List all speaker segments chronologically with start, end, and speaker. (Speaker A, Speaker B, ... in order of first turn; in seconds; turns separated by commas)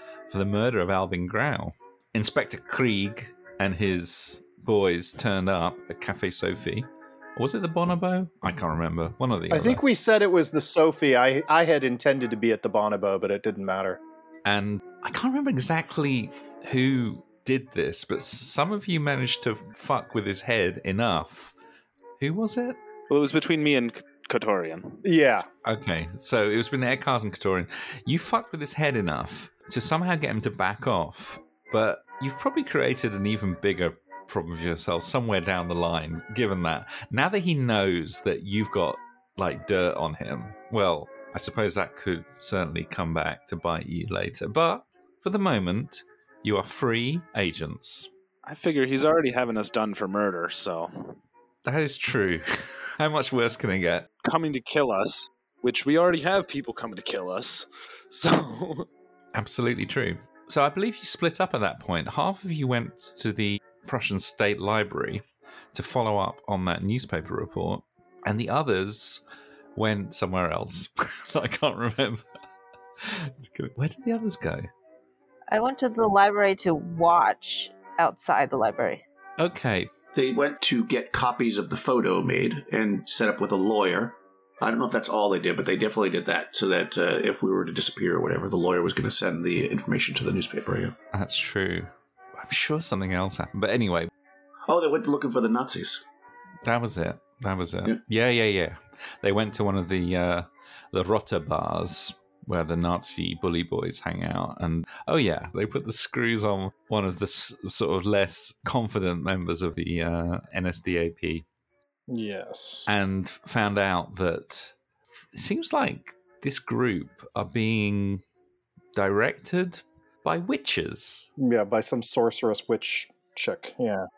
Speaker A: 0.3-9.8, Speaker B: 9.5-14.0, Speaker A: 14.4-21.5, Speaker A: 22.2-22.8, Speaker C: 23.1-25.0, Speaker B: 25.0-25.5, Speaker A: 25.6-48.1, Speaker C: 48.5-51.2, Speaker A: 51.6-54.1, Speaker C: 54.2-58.9, Speaker A: 59.3-69.2, Speaker A: 69.7-72.2, Speaker A: 73.0-74.7, Speaker D: 75.5-79.0, Speaker A: 79.4-79.9, Speaker E: 80.1-91.0, Speaker A: 91.1-94.1, Speaker E: 94.7-96.0, Speaker A: 96.6-111.5, Speaker B: 112.1-112.9, Speaker A: 112.9-114.7, Speaker A: 115.3-118.2, Speaker A: 118.9-121.3, Speaker B: 121.4-124.0